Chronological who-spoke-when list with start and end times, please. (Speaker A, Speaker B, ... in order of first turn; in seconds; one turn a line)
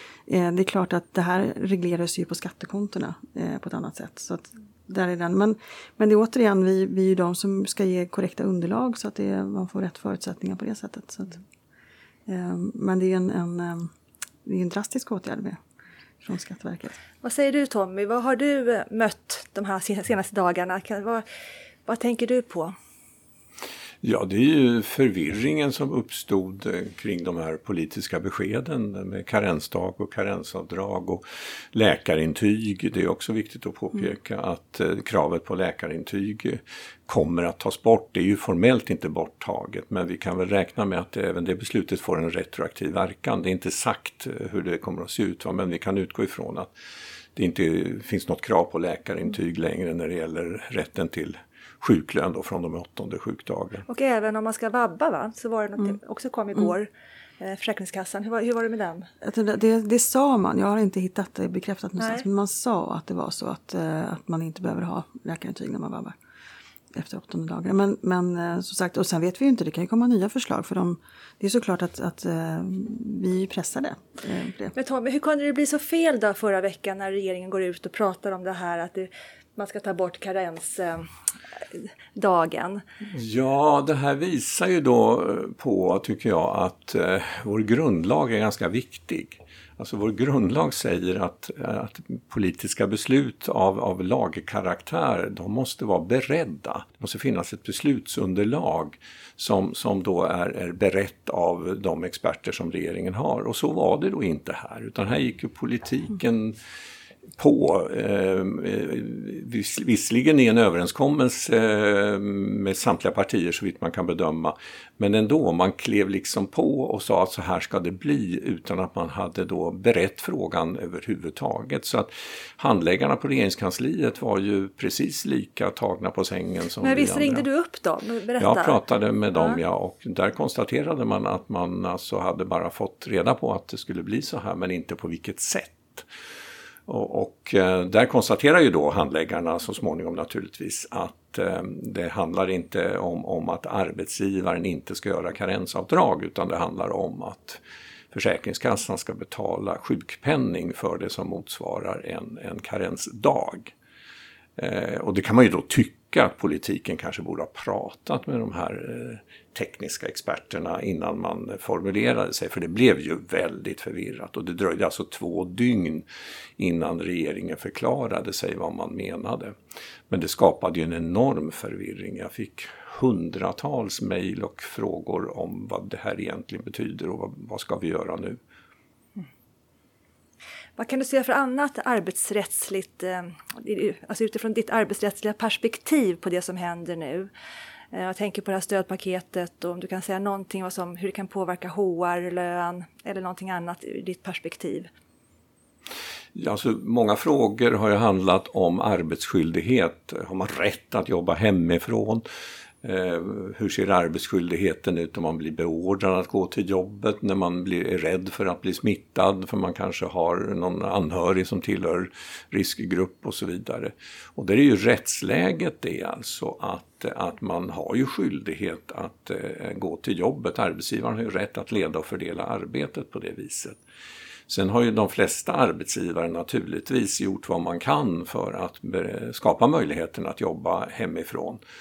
Speaker A: 0.3-11.4
Speaker A: 12.3-13.9
Speaker A: 14.4-15.6
Speaker A: 16.2-16.9
Speaker B: 17.2-21.2
Speaker B: 21.9-22.8
Speaker C: 24.0-46.7
Speaker C: 47.4-53.9
Speaker B: 53.9-59.1
Speaker A: 59.2-66.2
Speaker B: 62.0-62.2
Speaker A: 66.9-74.8
Speaker B: 74.8-81.1
Speaker B: 81.7-82.8
Speaker C: 83.1-106.6
Speaker C: 107.4-127.5
Speaker B: 126.8-128.8
Speaker C: 128.4-136.1
Speaker C: 136.9-147.6
Speaker C: 148.1-153.7
Speaker C: 154.6-166.1
Speaker C: 166.6-169.6
Speaker C: 170.1-178.4
Speaker B: 180.8-187.3
Speaker B: 187.9-194.9
Speaker C: 196.3-202.2
Speaker C: 202.8-223.8
Speaker C: 224.5-231.6